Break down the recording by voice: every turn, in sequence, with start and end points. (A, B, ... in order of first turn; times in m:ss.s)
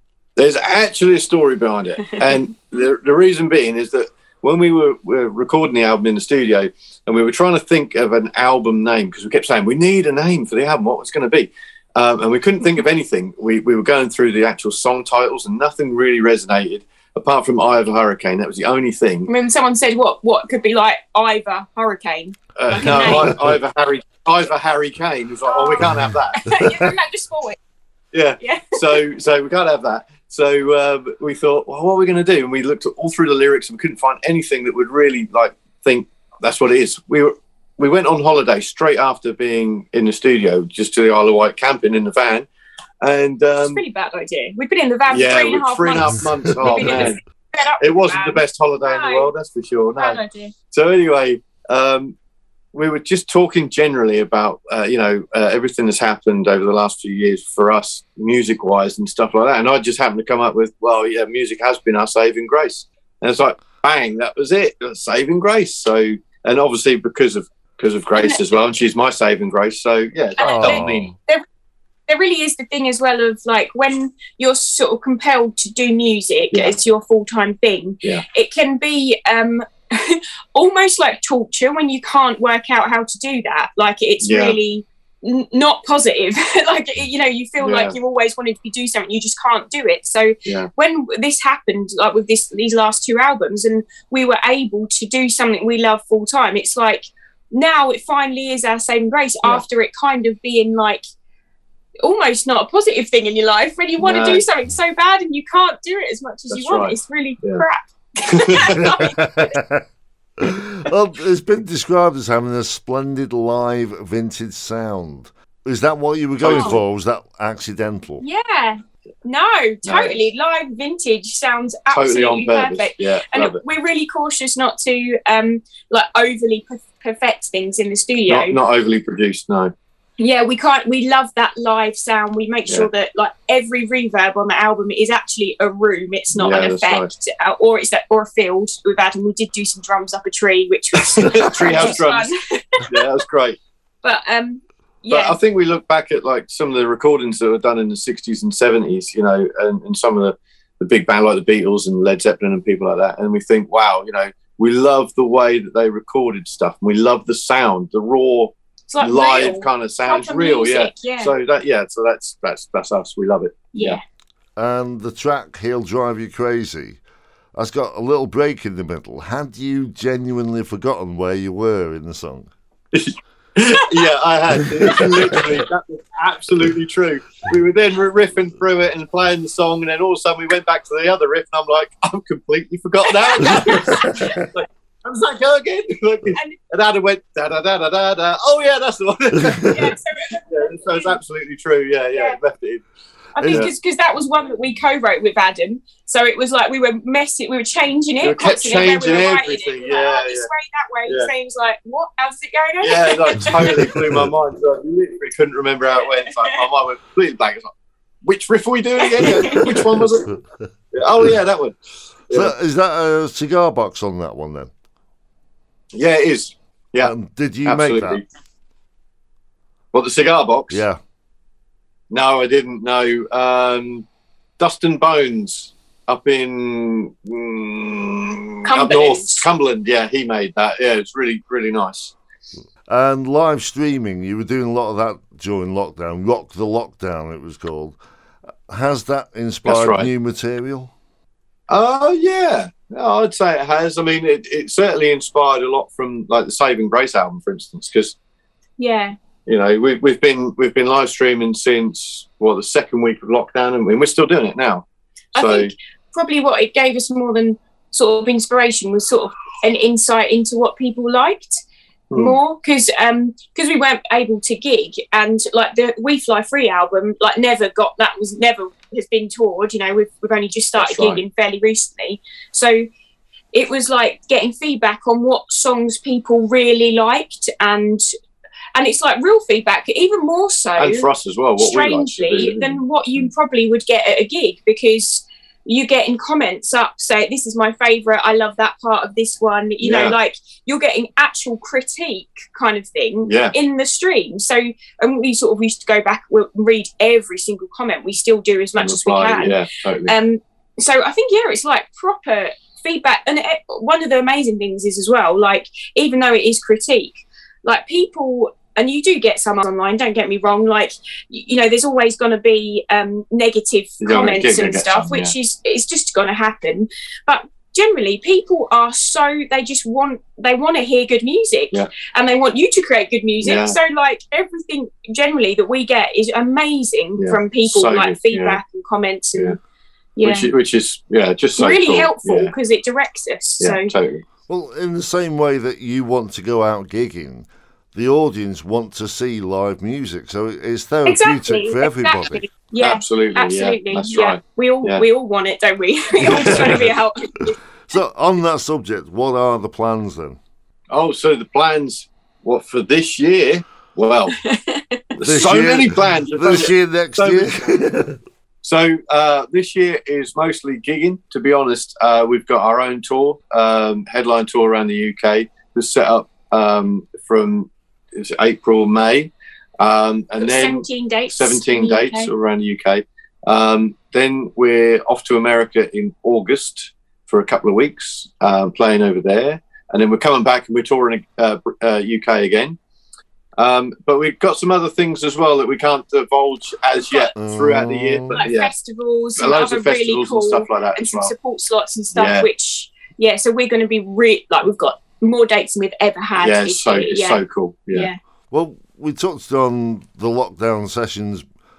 0:00.4-0:19.3 A
0:19.3-0:23.6 B
0:22.6-0:26.4 A
0:25.5-0:27.6 B
0:28.1-0:42.5 A
0:28.4-0:29.0 B
0:43.0-0:43.8 A
0:43.6-0:49.3 B
0:45.1-0:47.2 A
0:47.8-0:50.2 A
0:50.0-0:50.5 B
0:50.7-0:52.1 A
0:52.7-1:11.1 A
1:08.2-1:08.4 B
1:10.4-1:11.4 B
1:10.4-1:11.1 C
1:12.1-1:41.0 B
1:24.2-1:24.6 A
1:27.6-1:28.0 A
1:42.0-1:49.5 B
1:44.0-1:44.4 A
1:46.5-1:47.6 A
1:48.4-1:48.9 A
1:49.0-1:49.8 C
1:50.4-1:58.2 C
1:56.4-1:56.8 A
1:56.5-1:56.8 B
1:58.2-2:08.6 B
1:59.8-2:00.2 A
2:01.9-2:03.6 A
2:08.3-2:09.7 A
2:10.2-2:23.0 B
2:16.3-2:17.1 A
2:21.2-2:22.3 A
2:22.9-2:23.6 A
2:24.0-2:25.4 B
2:25.1-2:44.0 A
2:38.9-2:41.3 B
2:43.7-2:44.0 B
2:44.6-2:47.0 C
2:47.6-2:52.5 C
2:52.9-3:09.9 A
2:54.9-2:55.2 B
3:03.1-3:04.4 B
3:06.3-3:06.6 B
3:09.7-3:11.1 B
3:10.5-3:12.8 A
3:12.1-3:12.4 B
3:13.4-3:24.0 B
3:13.4-3:13.7 C
3:13.4-3:13.7 A
3:18.2-3:20.5 A
3:22.8-3:27.7 A
3:28.2-3:30.4 A
3:29.1-3:29.8 B
3:30.9-3:31.8 A
3:32.3-3:32.5 A
3:32.3-3:34.7 C
3:35.9-3:38.2 A
3:37.0-3:38.2 C
3:39.9-3:40.8 A
3:40.7-3:41.0 C
3:42.1-3:44.1 A
3:44.6-3:52.2 A
3:48.6-3:49.5 B
3:52.9-3:58.0 C
3:58.7-4:00.9 C
3:59.6-4:00.1 A
4:01.7-4:08.2 A
4:08.8-4:09.2 B
4:09.5-4:14.8 A
4:15.4-4:21.6 B
4:15.4-4:15.7 A
4:22.1-4:22.4 A
4:22.2-4:32.8 B
4:30.8-4:31.2 A
4:33.5-4:38.0 B
4:38.8-4:41.1 B
4:40.8-4:43.3 A
4:41.6-5:29.6 B
4:49.8-4:50.2 A
4:53.3-4:53.6 A
4:58.8-5:00.1 A
5:14.0-5:15.3 A
5:23.4-5:23.8 A
5:27.2-5:28.6 A
5:30.2-5:30.5 B
5:30.2-5:32.5 A
5:31.6-5:33.9 B
5:33.6-5:34.2 A
5:34.5-5:42.4 C
5:41.1-5:47.6 B
5:42.8-5:45.0 A
5:46.3-5:46.9 A
5:46.3-5:46.8 C
5:47.9-5:50.4 C
5:50.9-5:54.4 A
5:54.3-5:55.4 B
5:55.2-5:57.7 A
5:55.2-5:58.2 C
5:58.6-6:22.8 A
6:10.4-6:12.3 B
6:23.6-6:28.7 A
6:27.1-6:27.3 B
6:27.4-6:28.4 C
6:28.3-6:38.2 B
6:29.4-6:31.3 A
6:32.1-6:32.5 A
6:36.4-6:38.1 A
6:38.5-6:41.4 C